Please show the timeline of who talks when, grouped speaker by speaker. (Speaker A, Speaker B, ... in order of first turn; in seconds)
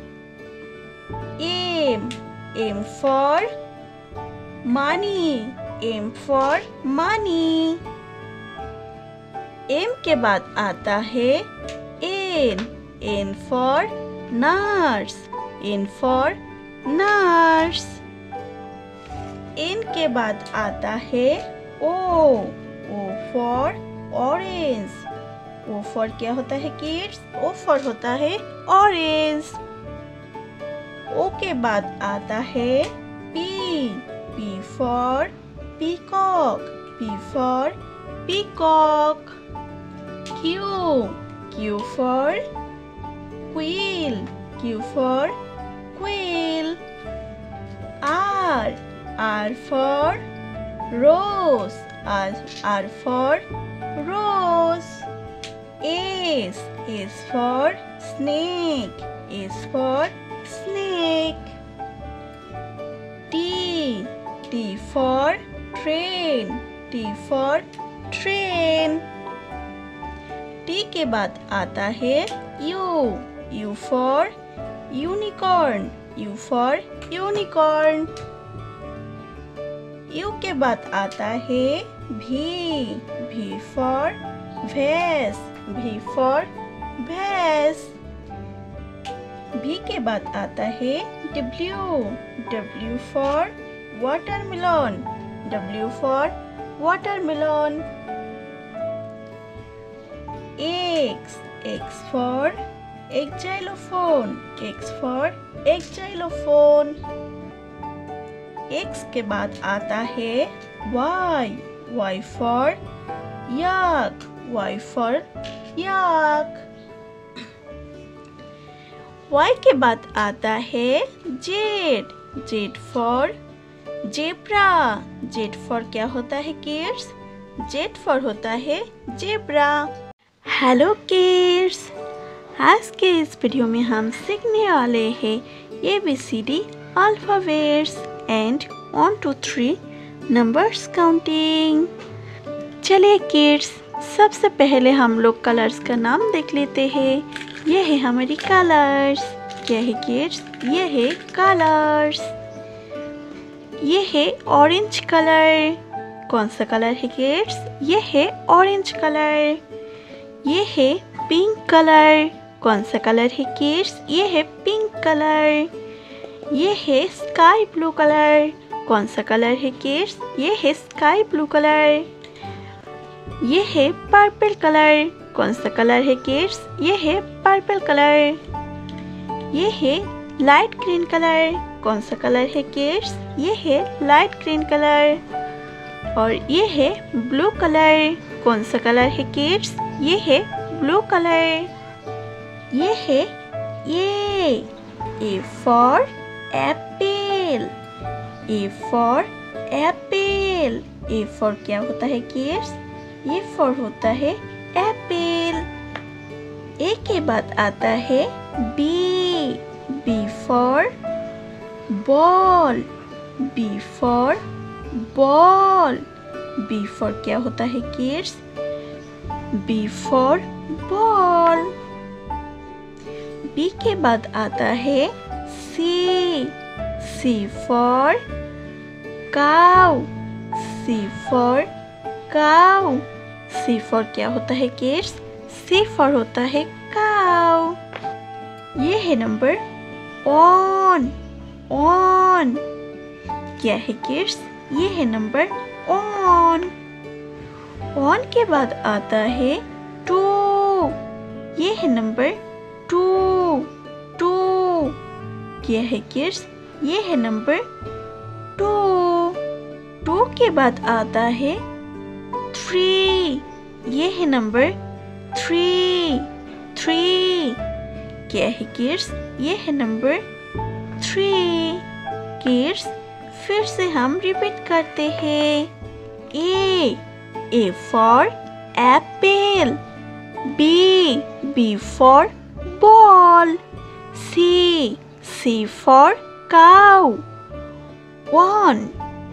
Speaker A: 1.4-3.5, 4.6-7.8, 9.7-11.5, 12.0-18.0, 19.6-25.1, 25.6-29.6, 31.1-39.4, 40.3-42.4, 43.5-45.4, 45.9-46.8, 48.0-50.2, 50.9-53.4, 54.0-55.1, 55.8-61.5, 63.3-69.0, 70.7-74.3, 74.9-78.2, 80.1-88.0, 89.5-97.8, 100.6-102.6, 103.1-107.0, 108.7-112.8, 113.5-116.7, 119.3-123.3, 124.1-129.9, 130.4-131.9, 132.6-141.9, 142.8-152.3, 153.8-159.6, 160.4-165.7, 166.5-172.1, 173.4-178.4, 179.5-185.2, 186.1-191.7, 192.7-193.3, 193.8-194.7, 195.2-197.7, 198.5-205.7, 206.8-210.9, 211.9-212.8, 213.4-216.0, 216.6-218.4, 219.5-221.7, 223.5-228.2, 229.3-231.7, 232.3-237.8, 238.7-239.6, 240.2-241.2, 241.7-242.6, 243.6-246.7, 247.9-251.0, 251.5-255.0, 255.6-257.7, 258.6-259.4, 260.0-261.6, 262.5-264.8, 265.3-267.6, 268.3-270.2, 271.0-271.8, 272.4-275.7, 276.3-279.8, 280.4-283.6, 284.1-287.2, 288.3-288.9